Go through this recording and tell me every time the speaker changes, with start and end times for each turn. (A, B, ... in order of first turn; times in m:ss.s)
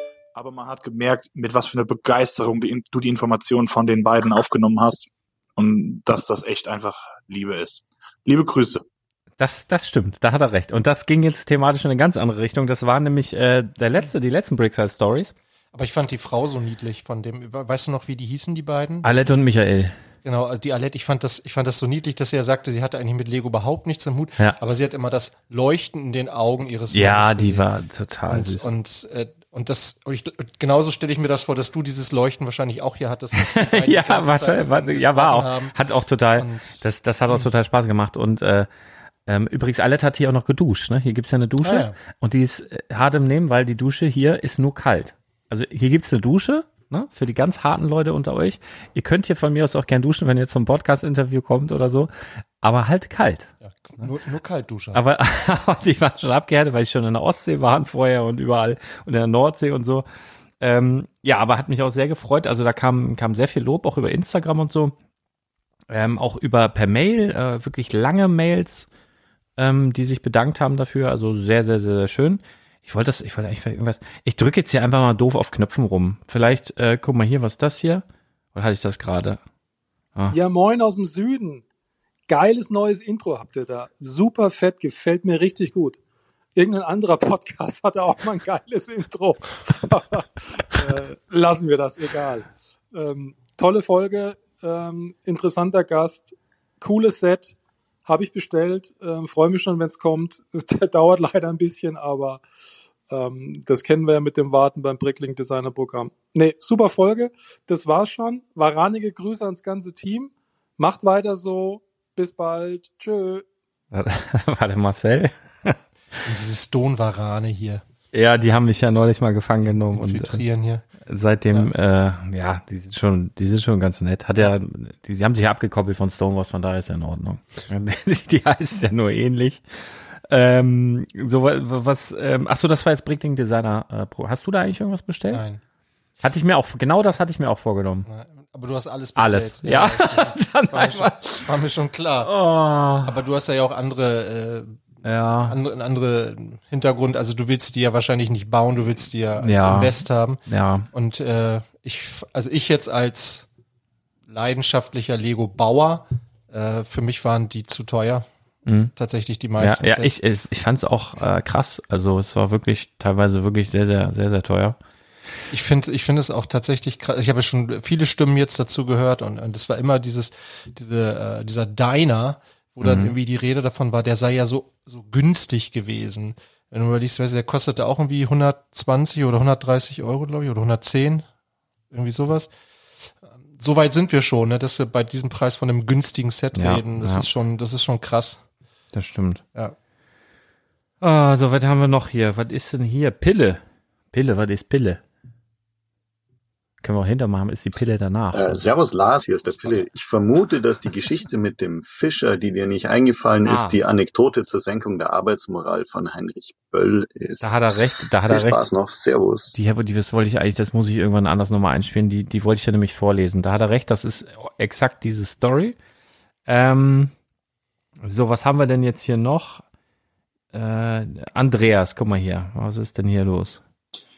0:00.4-0:08.8 A
0:09.4-0:15.3 B
0:15.7-0:19.4 C
0:19.0-0:20.0 B
0:20.2-0:27.7 C
0:26.9-0:28.7 B
0:28.3-0:35.8 C
0:33.4-0:38.7 B
0:36.4-0:37.5 C
0:39.3-0:52.1 B
0:41.6-0:42.0 C
0:52.6-0:53.5 B
0:53.6-0:55.0 C
0:54.9-1:00.1 B
1:00.6-1:04.9 B
1:05.9-1:08.9 B
1:09.6-1:18.0 B
1:18.6-1:19.4 B
1:20.3-1:21.6 D
1:22.3-1:26.0 D
1:26.6-1:42.4 D
1:43.1-1:53.4 D
1:53.9-1:55.8 B
1:56.2-1:57.8 C
1:58.1-2:00.4 B
1:59.9-2:00.8 C
2:01.1-2:09.6 B
2:10.3-2:15.4 B
2:15.3-2:15.6 C
2:16.2-2:18.1 B
2:18.1-2:22.3 C
2:19.2-2:21.5 B
2:22.2-2:23.1 B
2:23.0-2:24.9 C
2:25.0-2:25.6 B
2:25.4-2:33.5 C
2:29.4-2:30.9 B
2:34.3-2:38.3 C
2:38.7-2:38.9 B
2:39.0-2:40.1 C
2:39.6-2:44.8 B
2:45.5-3:01.2 C
2:52.8-2:53.1 B
3:01.9-3:02.5 C
3:03.0-3:08.4 C
3:06.6-3:07.3 B
3:08.9-3:09.4 B
3:11.0-3:15.0 B
3:16.8-3:18.7 B
3:18.3-3:29.6 E
3:23.4-3:23.8 B
3:27.4-3:28.6 B
3:29.5-3:35.8 B
3:36.5-3:37.1 B
3:38.0-3:39.6 B
3:40.5-3:43.6 B